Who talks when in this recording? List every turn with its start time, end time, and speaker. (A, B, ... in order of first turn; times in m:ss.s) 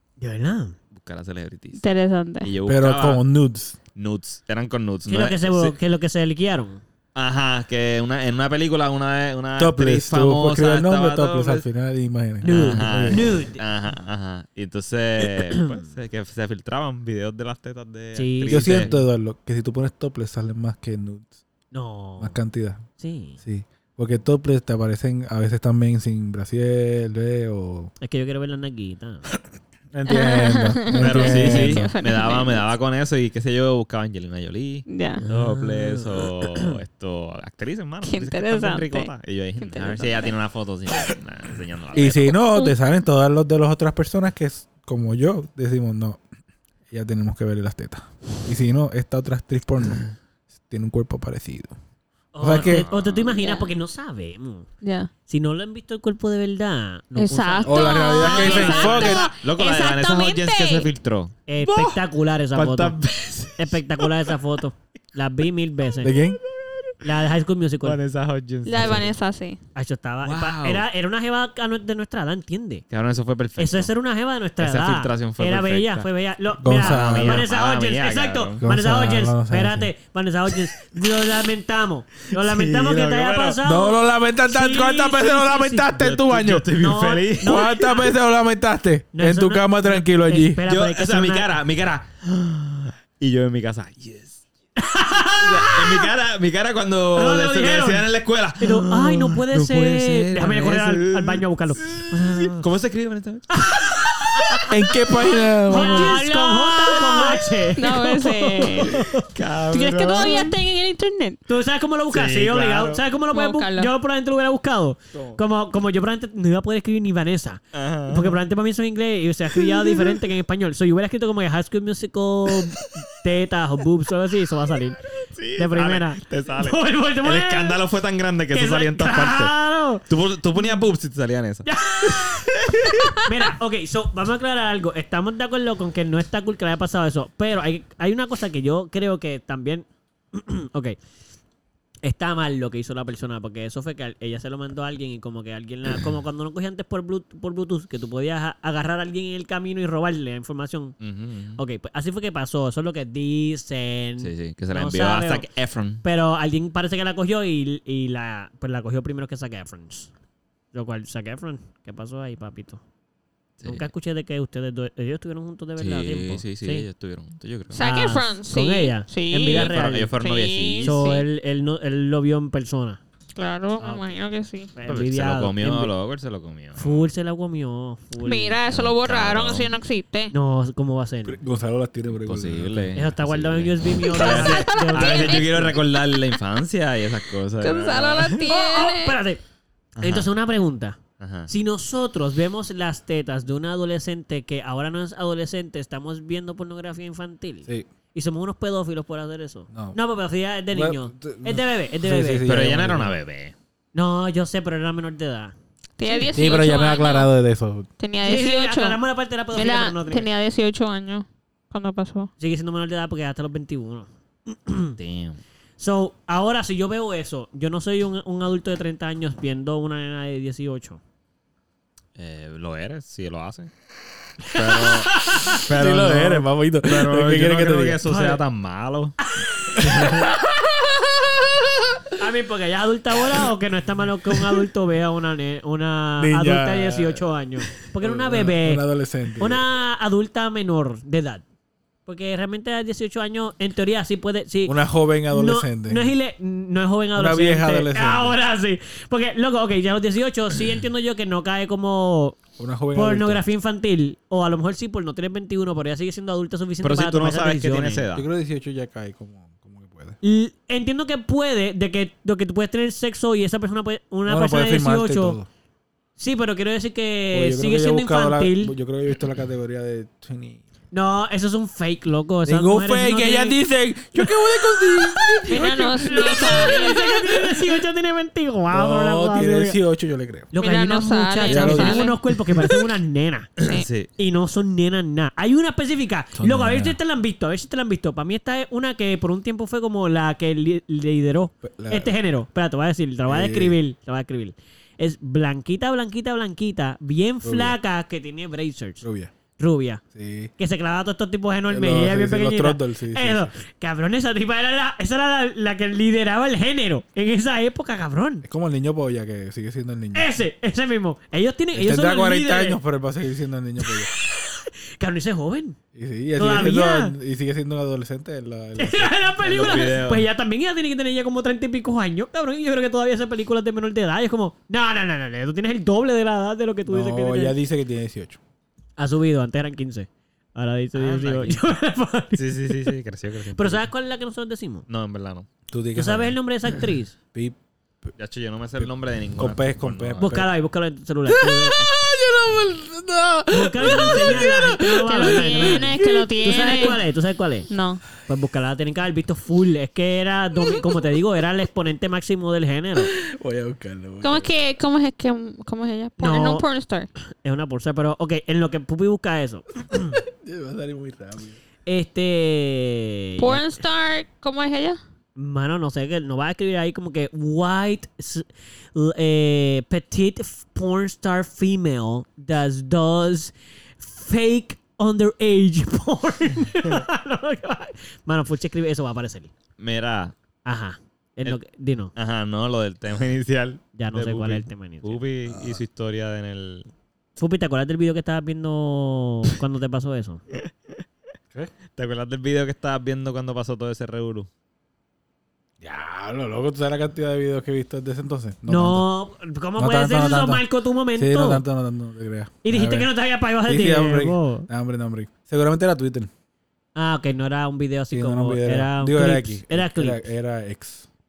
0:00.2-0:00.8 A
0:00.9-0:01.8 B
0:01.8-0:02.5 C
0:02.4-0:03.2 B
0:02.7-0:03.8 D
0:04.0-0:05.8 B
0:05.1-0:06.8 A
0:07.2-0:11.6 B
0:09.6-0:13.3 D
0:12.4-0:13.6 A
0:12.4-0:18.9 B
0:15.3-0:15.9 A
0:18.2-0:19.1 A
0:18.5-0:21.3 D
0:21.7-0:22.4 A
0:22.2-0:22.8 D
0:23.0-0:23.4 A
0:23.4-0:27.9 D
0:28.0-0:29.3 A
0:29.9-0:31.9 D
0:30.1-0:32.7 C
0:31.0-0:42.4 B
0:34.9-0:35.2 C
0:35.2-0:36.7 A
0:38.0-0:40.3 C
0:42.0-0:46.2 D
0:42.0-0:42.8 C
0:46.9-0:50.1 D
0:50.6-0:51.8 D
0:52.3-0:54.7 A
0:52.4-0:52.9 D
0:52.6-0:53.3 B
0:53.3-0:53.7 C
0:54.8-0:55.1 C
0:55.3-0:59.3 A
0:57.2-1:00.9 C
0:57.6-0:59.3 D
0:58.2-1:01.9 B
1:01.5-1:03.0 A
1:01.6-1:01.9 D
1:02.6-1:04.3 B
1:03.6-1:06.2 A
1:06.0-1:06.4 D
1:07.0-1:08.0 A
1:07.8-1:09.1 B
1:08.7-1:09.6 C
1:09.8-1:12.8 A
1:10.2-1:10.8 B
1:12.9-1:13.9 B
1:13.6-1:26.1 A
1:14.6-1:16.1 B
1:16.6-1:17.5 D
1:16.7-1:18.6 B
1:18.6-1:19.9 D
1:22.2-1:23.6 B
1:23.6-1:26.7 D
1:26.0-1:27.7 B
1:26.8-1:28.1 A
1:27.4-1:30.6 D
1:29.1-1:31.5 A
1:30.7-1:34.4 B
1:34.8-1:36.1 A
1:35.4-1:44.6 B
1:37.2-1:42.6 A
1:43.5-1:44.7 A
1:44.7-1:46.2 D
1:45.3-1:49.1 C
1:45.7-1:49.3 A
1:49.2-1:50.5 B
1:49.7-1:51.4 C
1:51.5-2:05.0 A
1:52.1-1:53.0 B
1:53.3-1:53.9 C
1:55.1-1:55.4 B
1:57.7-1:58.4 B
2:05.3-2:09.5 B
2:05.6-2:07.8 A
2:08.5-2:10.0 A
2:10.1-2:13.2 B
2:11.7-2:21.0 A
2:22.0-2:31.0 A
2:31.0-2:31.6 B
2:31.6-2:35.5 A
2:34.2-2:36.0 B
2:36.0-2:40.1 A
2:40.7-2:42.8 A
2:43.6-2:43.9 B
2:43.6-2:46.8 A
2:45.8-2:47.8 B
2:47.7-2:51.2 C
2:47.8-2:50.1 A
2:49.5-2:51.1 B
2:50.8-2:53.0 A
2:53.4-2:54.7 C
2:53.8-2:54.1 A
2:54.8-2:55.9 A
2:54.9-2:57.1 B
2:56.8-2:58.6 A
2:58.2-3:00.3 C
2:58.7-2:59.7 B
3:00.3-3:01.4 A
3:01.2-3:03.0 D
3:02.2-3:08.5 B
3:03.0-3:05.8 A
3:04.0-3:05.7 C
3:07.6-3:09.2 C
3:08.4-3:09.4 A
3:10.0-3:10.3 B
3:10.0-3:22.5 A
3:11.2-3:11.5 B
3:19.7-3:20.0 D
3:20.7-3:23.2 D
3:22.4-3:23.6 B
3:23.9-3:25.5 A
3:26.0-3:27.3 C
3:26.0-3:26.6 A
3:26.3-3:27.9 D
3:28.0-3:29.0 C
3:28.2-3:30.3 A
3:29.5-3:32.3 C
3:32.4-3:35.0 A
3:35.0-3:35.4 B
3:35.8-3:41.0 A
3:42.2-3:43.7 B
3:44.5-3:49.2 B
3:44.5-3:45.6 A
3:45.7-3:48.0 D
3:48.0-3:48.4 A
3:49.2-3:50.2 A
3:49.8-3:50.3 B
3:49.8-3:50.4 D
3:52.2-3:58.8 A
3:56.2-3:57.2 D
3:58.0-3:59.6 D
3:59.4-4:01.4 A
4:02.1-4:04.8 A
4:04.7-4:06.1 D
4:05.3-4:12.4 A
4:07.2-4:08.4 D
4:12.6-4:13.4 D
4:12.9-4:18.1 A
4:16.8-4:18.2 B
4:18.2-4:20.2 D
4:20.2-4:25.4 A
4:24.3-4:25.5 D
4:26.2-4:28.7 A
4:27.3-4:30.6 D
4:30.9-4:33.6 A
4:32.5-4:37.7 D
4:34.2-4:39.8 A
4:35.5-4:37.3 C
4:38.7-4:40.5 D
4:40.5-4:43.7 A
4:40.6-4:42.2 C
4:41.4-4:42.8 D
4:43.6-4:44.1 B
4:44.2-4:59.0 A
4:46.4-4:47.0 D
4:51.6-4:52.1 D
4:53.3-4:53.8 D
4:57.4-4:57.8 D
4:59.0-4:59.3 D
4:59.6-5:00.0 A
5:00.1-5:00.5 D
5:00.6-5:08.4 A
5:01.7-5:03.5 D
5:08.4-5:10.3 D
5:10.1-5:12.8 A
5:11.7-5:14.1 D
5:13.8-5:15.8 A
5:16.0-5:20.0 D
5:16.4-5:17.1 A
5:18.8-5:27.6 A
5:19.4-5:20.3 B
5:26.9-5:28.4 D
5:29.0-5:33.0 A
5:31.0-5:31.7 B
5:32.3-5:33.9 B
5:33.6-5:34.8 A
5:34.9-5:35.5 B
5:35.7-5:36.4 D
5:36.0-5:37.2 A
5:38.2-5:40.4 B
5:38.8-5:40.5 D
5:40.2-5:41.9 A
5:41.3-5:47.0 D
5:43.5-5:53.1 A
5:45.1-5:47.0 C
5:47.7-5:48.0 C
5:53.0-5:54.5 D
5:54.2-5:57.1 C
5:56.2-5:56.7 A
5:57.4-6:00.2 A
6:00.2-6:01.6 D
6:01.9-6:03.7 A
6:03.4-6:05.0 C
6:05.4-6:19.5 A
6:19.8-6:20.4 B
6:20.6-6:22.1 A
6:22.2-6:26.9 B
6:24.0-6:25.2 A
6:27.4-6:30.4 A
6:30.6-6:31.0 B
6:32.0-6:34.5 B
6:35.8-6:39.1 D
6:38.7-6:41.6 A
6:39.8-6:40.6 D
6:41.2-6:43.1 D
6:42.6-6:44.7 A
6:43.7-6:46.3 D
6:47.0-6:50.2 A
6:48.1-6:51.1 D